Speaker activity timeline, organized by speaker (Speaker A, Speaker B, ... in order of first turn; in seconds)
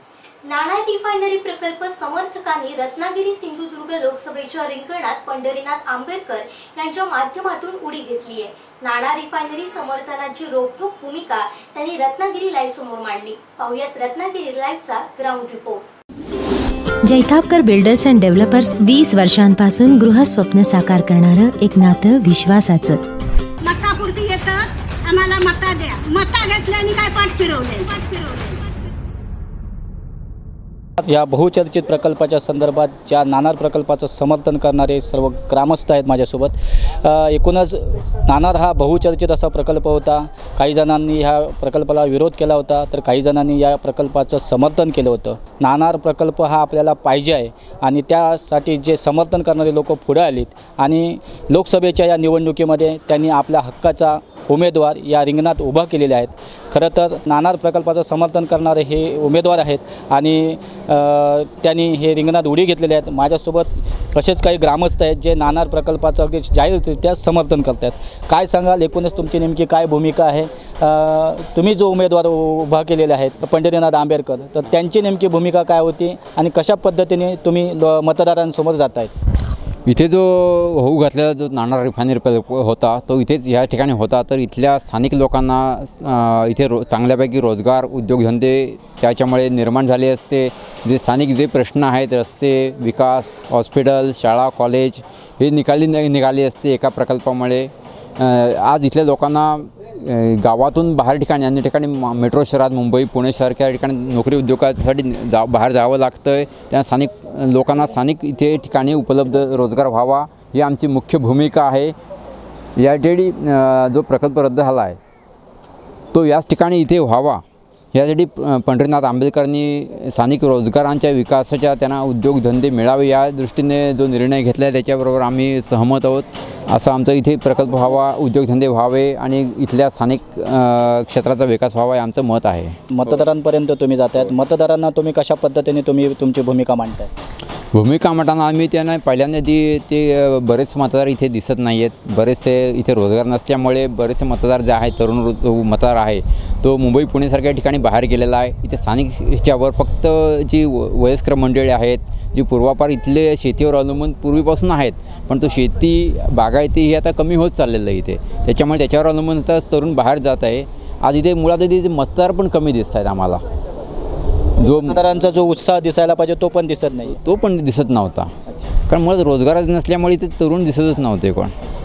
Speaker A: 0.5-15.8
Speaker B: 17.1-23.0
Speaker C: 23.6-28.7
Speaker D: 31.0-79.1, 132.9-137.1, 164.8-167.2
Speaker E: 79.9-112.0, 112.8-115.0, 116.1-117.4, 117.9-132.8, 137.7-163.4, 164.6-165.0, 167.2-168.3, 168.9-171.5